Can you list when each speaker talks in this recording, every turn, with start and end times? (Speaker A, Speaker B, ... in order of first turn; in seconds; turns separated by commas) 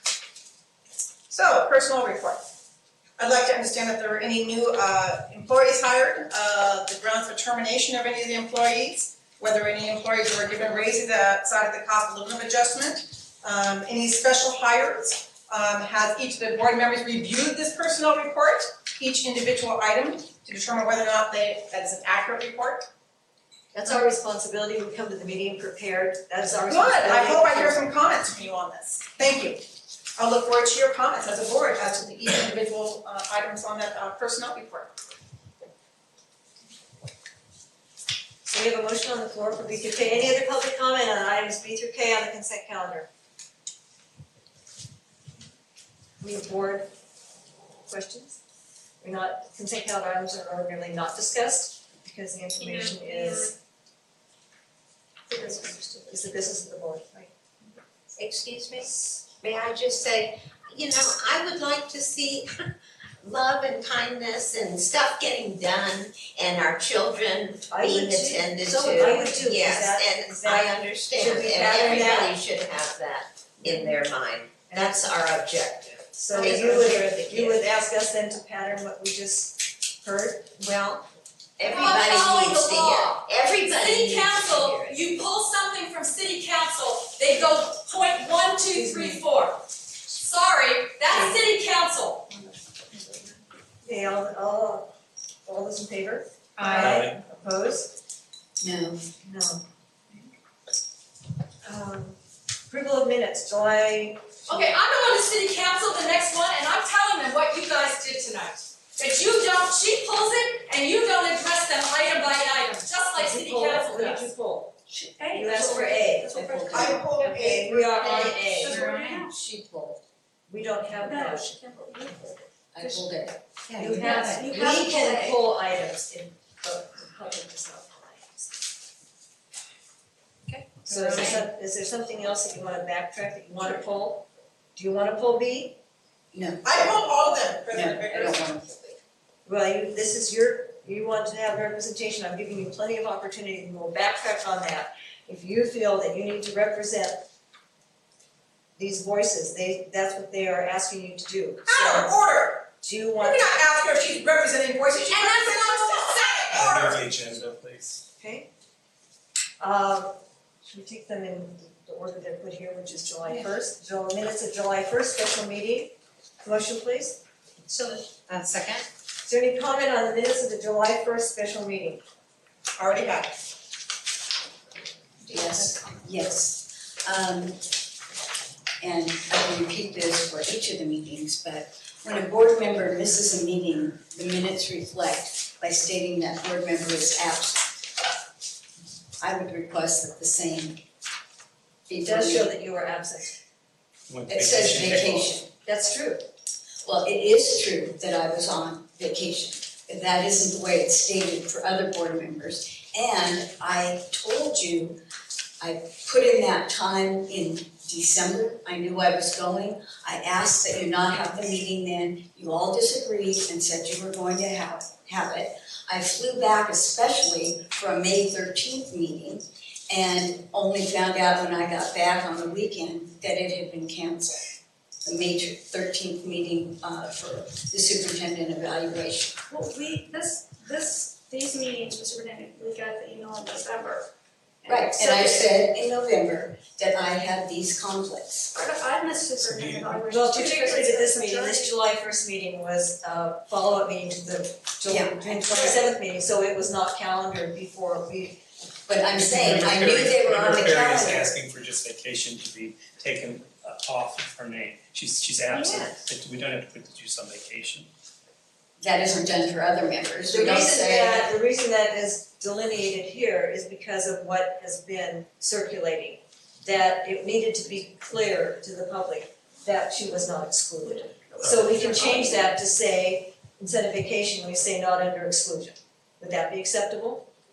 Speaker A: 1.1-2.4, Speaker A: 3.2-22.9, Speaker B: 23.7-27.8, Speaker A: 26.7-29.6, Speaker A: 30.1-34.9, Speaker B: 38.4-43.1, Speaker B: 46.2-46.9, Speaker B: 47.9-48.4, Speaker B: 49.0-53.5, Speaker C: 52.6-53.5, Speaker C: 55.3-56.2, Speaker B: 56.1-57.3, Speaker D: 58.2-62.7, Speaker D: 63.2-77.7, Speaker B: 67.7-72.4, Speaker B: 73.6-74.0, Speaker B: 74.7-75.1, Speaker B: 76.2-80.6, Speaker D: 80.6-81.0, Speaker D: 81.6-85.0, Speaker E: 81.6-92.3, Speaker C: 92.9-93.3, Speaker B: 93.8-94.9, Speaker B: 95.5-97.9, Speaker C: 96.6-97.0, Speaker F: 96.8-97.2, Speaker G: 98.6-99.0, Speaker B: 99.2-99.7, Speaker B: 101.6-102.2, Speaker B: 102.7-104.7, Speaker E: 104.5-114.3, Speaker B: 113.2-114.7, Speaker C: 114.9-119.3, Speaker B: 115.3-118.8, Speaker G: 116.3-116.8, Speaker A: 116.6-119.2, Speaker G: 119.2-119.9, Speaker B: 120.5-121.6, Speaker C: 121.0-123.1, Speaker G: 122.7-123.4, Speaker D: 123.8-124.0, Speaker B: 123.8-128.5, Speaker C: 123.8-125.4, Speaker A: 130.8-131.3, Speaker B: 130.8-135.8, Speaker G: 136.3-137.0, Speaker A: 136.6-138.4, Speaker G: 137.7-139.0, Speaker B: 139.5-147.2, Speaker B: 148.8-152.1, Speaker A: 151.7-157.1, Speaker B: 152.8-153.6, Speaker E: 155.1-156.2, Speaker F: 156.5-158.0, Speaker B: 158.2-158.5, Speaker B: 159.6-167.2, Speaker A: 167.7-168.8, Speaker B: 169.2-172.0, Speaker A: 172.8-173.3, Speaker G: 175.3-177.7, Speaker G: 178.8-187.8, Speaker G: 189.2-190.8, Speaker G: 191.9-192.5, Speaker B: 192.0-193.4, Speaker F: 194.1-195.3, Speaker G: 194.3-195.5, Speaker B: 195.7-196.2, Speaker G: 196.8-205.0, Speaker G: 205.6-229.4, Speaker C: 229.5-234.1, Speaker C: 234.6-235.2, Speaker G: 234.7-238.5, Speaker C: 238.5-241.7, Speaker F: 239.4-240.1, Speaker B: 240.1-248.4, Speaker G: 244.9-245.7, Speaker G: 248.9-251.3, Speaker F: 249.2-257.9, Speaker D: 255.5-255.9, Speaker G: 258.8-261.3, Speaker B: 260.3-277.3, Speaker C: 271.1-271.5, Speaker F: 271.4-272.2